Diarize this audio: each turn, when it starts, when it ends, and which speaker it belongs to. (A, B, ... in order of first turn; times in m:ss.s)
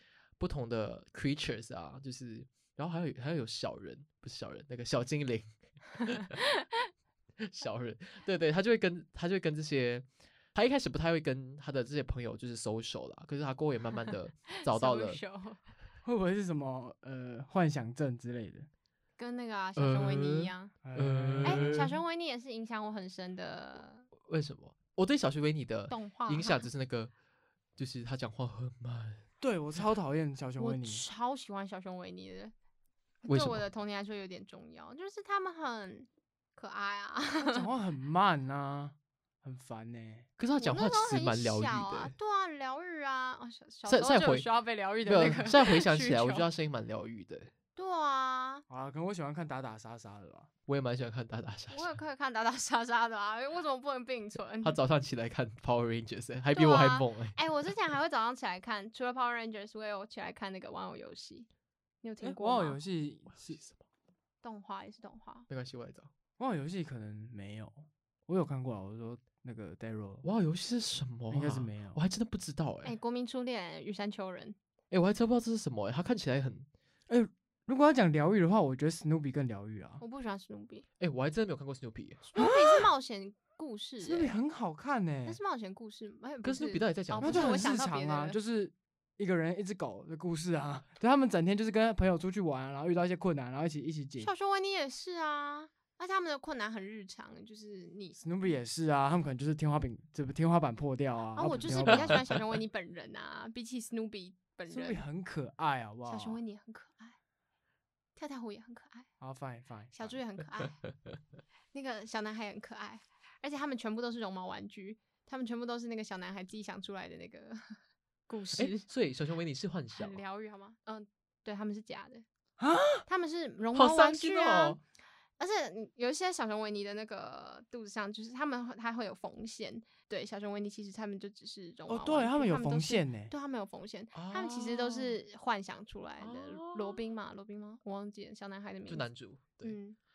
0:00.4-0:05.4 A
0:06.0-0:06.3 A
0:07.4-0:15.2 A
0:14.5-0:15.6 B
0:16.0-0:18.7 C
0:19.2-0:20.7 B
0:19.8-0:21.9 A
0:20.8-0:21.8 C
0:21.4-0:24.0 B
0:24.2-0:27.1 A
0:25.9-0:26.7 B
0:27.8-0:29.2 A
0:29.4-0:31.0 C
0:30.6-0:32.5 B
0:33.2-0:37.6 B
0:33.3-0:33.6 A
0:37.4-0:40.3 C
0:40.4-0:42.1 A
0:40.6-0:46.5 B
0:43.9-0:44.5 A
0:45.0-0:47.5 A
0:47.7-0:48.6 B
0:48.7-0:50.5 C
0:50.7-0:51.9 A
0:51.7-0:54.8 B
0:54.6-0:57.4 A
0:56.5-1:01.5 B
1:02.0-1:02.8 B
1:02.2-1:03.6 C
1:03.4-1:03.8 A
1:04.4-1:05.5 B
1:05.5-1:06.1 A
1:06.4-1:10.2 C
1:10.2-1:12.9 A
1:11.3-1:12.0 C
1:12.8-1:14.6 B
1:14.9-1:16.7 A
1:17.1-1:20.0 C
1:20.0-1:20.8 B
1:21.0-1:22.2 A
1:22.3-1:24.3 B
1:22.4-1:22.9 C
1:24.0-1:25.4 C
1:25.2-1:28.4 B
1:26.4-1:27.7 A
1:27.2-1:34.3 C
1:34.2-1:38.2 B
1:38.2-1:42.2 C
1:41.4-1:45.0 B
1:41.8-1:42.2 A
1:44.7-1:46.4 C
1:46.0-1:47.2 B
1:48.2-1:49.1 B
1:49.2-1:50.2 C
1:49.9-1:50.8 B
1:51.7-1:57.8 B
1:58.3-1:58.8 B
1:58.6-2:00.2 A
1:59.9-2:02.2 B
2:02.6-2:03.0 C
2:03.1-2:04.8 B
2:03.7-2:04.8 A
2:05.4-2:19.1 B
2:11.9-2:13.3 C
2:14.1-2:15.2 A
2:16.2-2:17.0 A
2:18.9-2:19.8 A
2:19.6-2:20.0 B